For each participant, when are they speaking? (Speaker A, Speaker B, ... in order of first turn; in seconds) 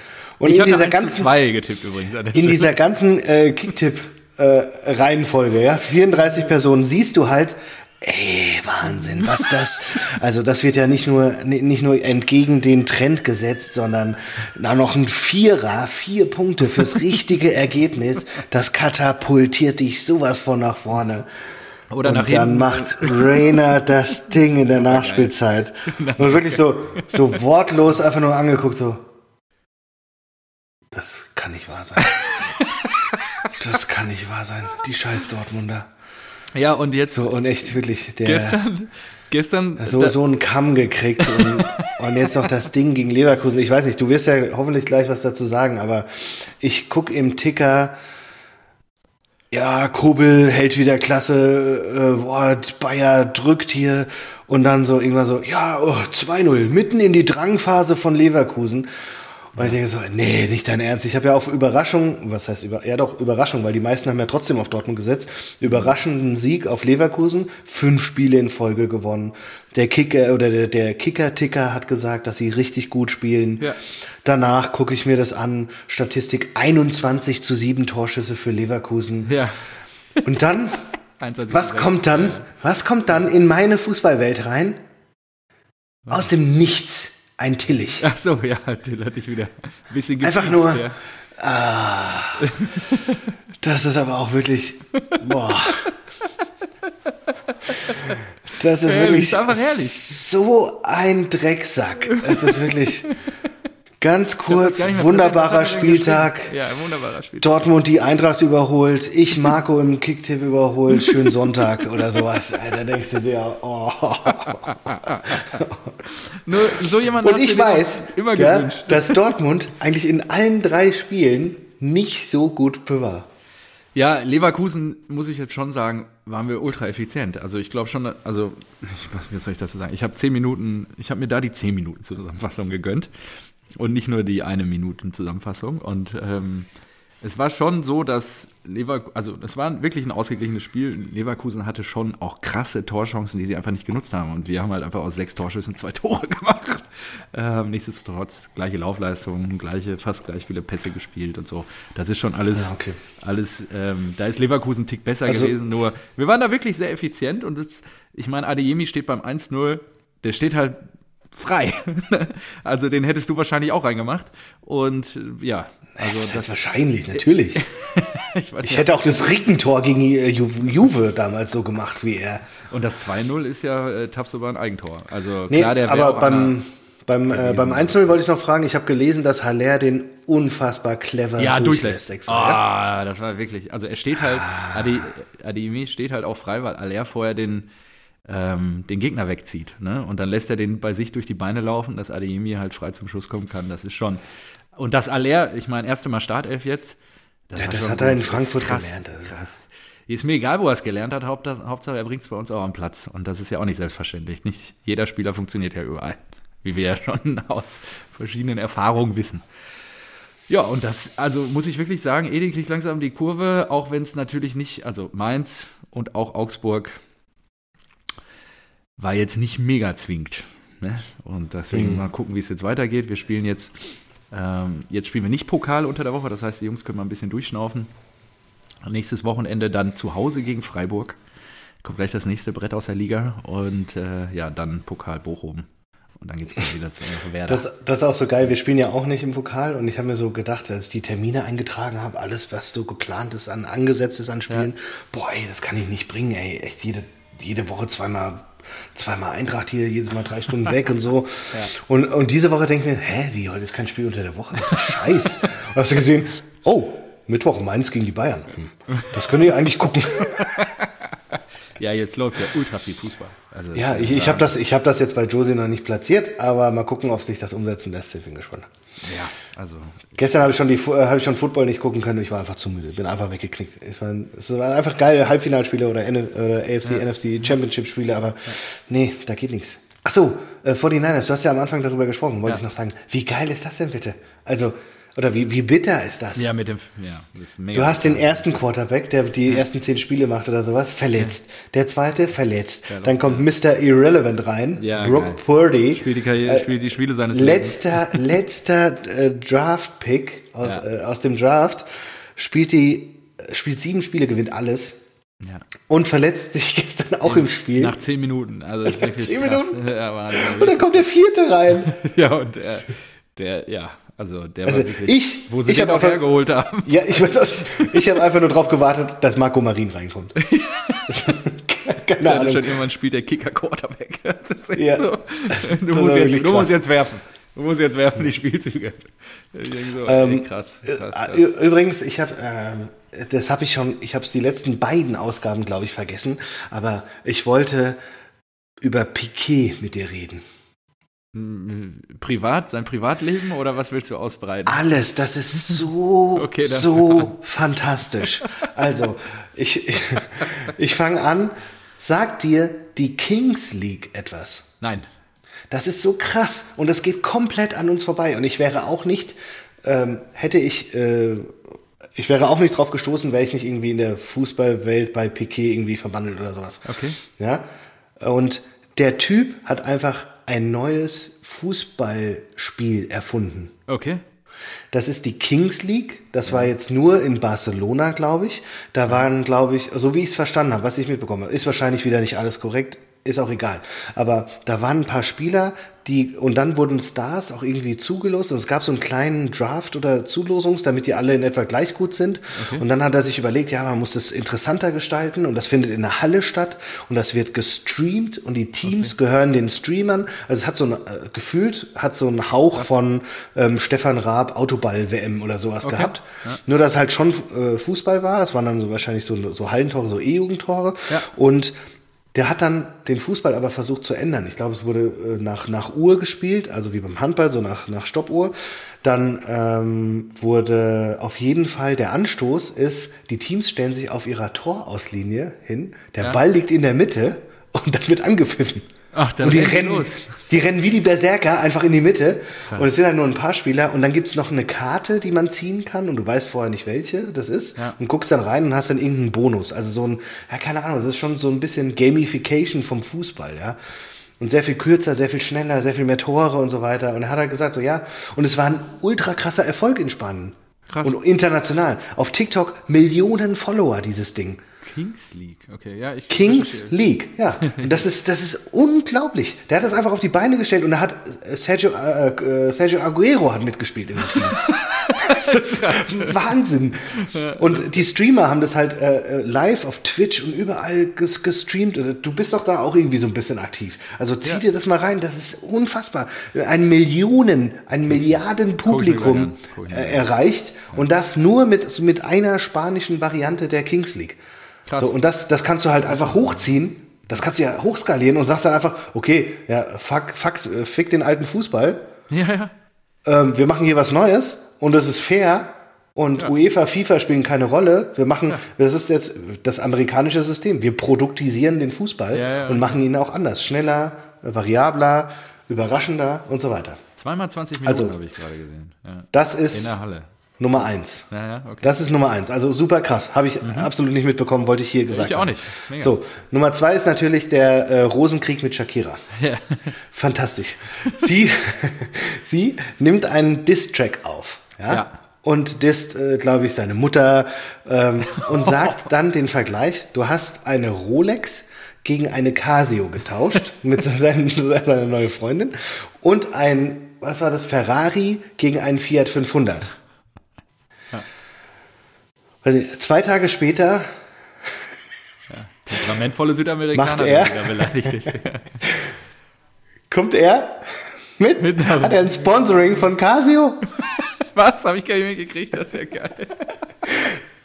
Speaker A: 0.4-1.3, 2.3-21.2, 22.0-29.0, 30.9-32.4, 33.5-35.9, 37.1-38.6, 39.8-47.9, 49.5-58.9, 59.5-73.7, 74.2-79.3, 80.2-80.8, 81.5-84.8, 86.1-88.1, 90.2-90.8, 91.4-92.5, 93.6-95.9, 98.5-103.1, 104.0-106.5, 107.4-116.0, 116.5-123.3, 152.5-153.0, 155.3-155.5, 165.9-167.6, 168.6-172.6, 175.5-182.6, 184.4-184.8, 197.6-199.4, 221.7-222.1, 237.4-260.7, 263.7-268.7, 270.1-286.5, 287.7-296.7, 297.3-305.0, 305.9-307.9, 308.8-312.0, 314.6-316.3, 316.8-320.4, 321.1-322.7, 324.8-326.8, 330.0-338.0, 338.8-340.4, 344.6-354.7, 355.7-361.6, 362.1-367.6, 368.2-373.7, 374.9-411.7, 412.3-428.9, 429.4-443.8, 444.4-454.6, 456.3-484.4, 485.0-492.0, 493.2-507.0, 507.8-508.1, 509.3-510.0, 510.6-511.3, 511.8-519.2, 520.1-539.9, 542.6-544.1, 546.9-548.3, 548.8-549.1, 550.1-553.9
Speaker B: 0.4-2.8, 21.9-25.3, 25.9-27.4, 32.0-33.5, 36.5-40.2, 41.2-42.5, 79.2-80.3, 81.2-82.5, 88.0-91.0, 92.4-93.2, 97.5-98.2, 98.8-100.2, 102.1-103.1, 104.5-107.5, 111.0-111.4, 114.3-119.2, 123.9-136.7, 137.2-166.6, 167.1-169.0, 172.7-176.6, 177.3-178.2, 181.4-187.7, 188.2-194.2, 194.8-197.0, 197.5-209.4, 210.5-216.9, 219.0-227.9, 228.8-231.2, 231.8-237.7, 258.9-259.2, 260.2-264.5, 269.0-270.1, 286.4-288.5, 292.9-293.5, 294.8-298.3, 307.2-311.1, 311.8-318.0, 320.4-321.4, 322.2-331.5, 341.3-344.9, 346.4-347.4, 354.8-355.1, 366.8-367.2, 373.9-374.2, 376.4-376.7, 392.5-392.9, 398.8-399.1, 405.8-406.6, 429.1-430.4, 450.9-451.1, 454.8-457.0, 457.6-458.0, 464.2-466.4, 467.1-468.1, 478.1-480.3, 484.9-485.1, 486.1-486.6, 492.3-492.7, 502.3-503.0, 507.1-510.3, 511.3-511.9, 513.6-513.9, 515.1-516.1, 519.3-519.9, 524.9-525.1, 528.4-528.9, 545.5-548.8, 551.6-552.5, 554.0-556.7